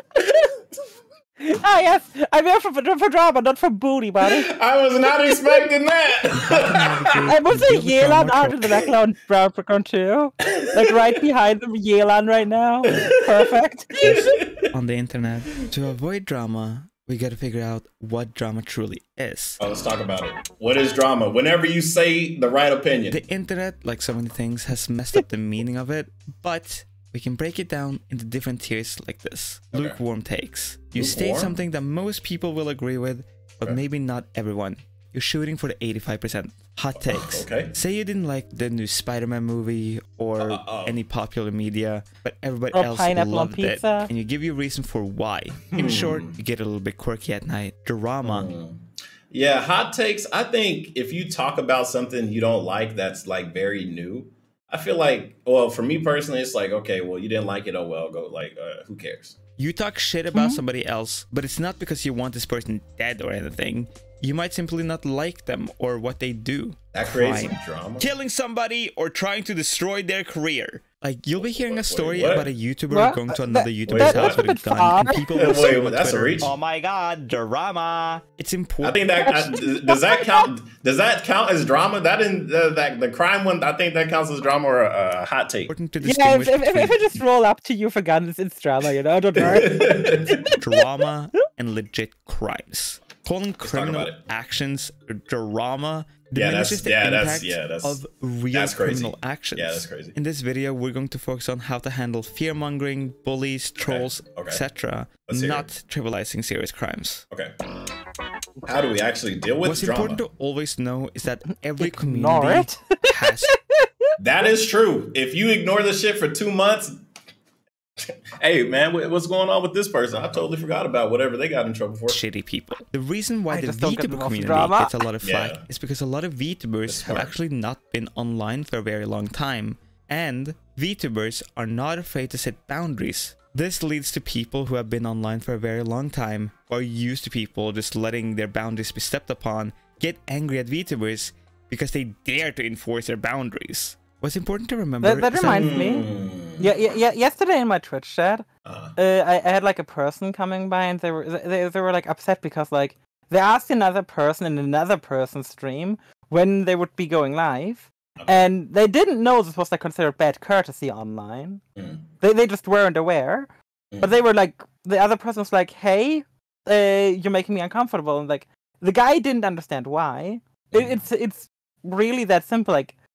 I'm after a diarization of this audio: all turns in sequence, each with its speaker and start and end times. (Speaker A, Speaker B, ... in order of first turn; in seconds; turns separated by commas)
Speaker A: 1.4-4.5, Speaker B: 4.2-7.3, Speaker C: 6.3-8.8, Speaker A: 7.3-14.2, Speaker B: 10.5-10.8, Speaker B: 12.9-13.2, Speaker C: 14.0-19.6, Speaker B: 14.4-14.6, Speaker B: 19.6-23.2, Speaker C: 23.1-48.5, Speaker B: 29.7-30.0, Speaker B: 30.9-31.6, Speaker B: 37.1-37.7, Speaker B: 40.4-41.0, Speaker A: 42.7-44.1, Speaker B: 45.7-46.4, Speaker B: 48.2-59.4, Speaker C: 59.6-79.4, Speaker A: 60.3-60.6, Speaker B: 66.9-68.1, Speaker B: 71.4-72.5, Speaker A: 72.9-75.8, Speaker B: 73.9-74.4, Speaker B: 75.4-76.5, Speaker B: 78.8-85.7, Speaker A: 79.2-80.5, Speaker C: 85.7-87.2, Speaker A: 86.0-90.5, Speaker B: 89.4-90.4, Speaker C: 90.5-107.2, Speaker B: 93.6-94.2, Speaker B: 96.3-98.0, Speaker B: 98.5-100.1, Speaker B: 103.8-104.6, Speaker B: 105.3-105.7, Speaker B: 108.7-110.2, Speaker C: 109.6-113.5, Speaker A: 111.7-113.5, Speaker B: 114.2-116.9, Speaker B: 118.4-122.2, Speaker C: 122.1-145.7, Speaker A: 123.5-125.0, Speaker B: 125.2-125.6, Speaker B: 126.9-127.4, Speaker A: 145.0-161.6, Speaker B: 145.4-146.7, Speaker B: 148.7-148.9, Speaker B: 158.2-158.5, Speaker B: 161.8-162.0, Speaker A: 162.2-172.9, Speaker B: 170.7-171.0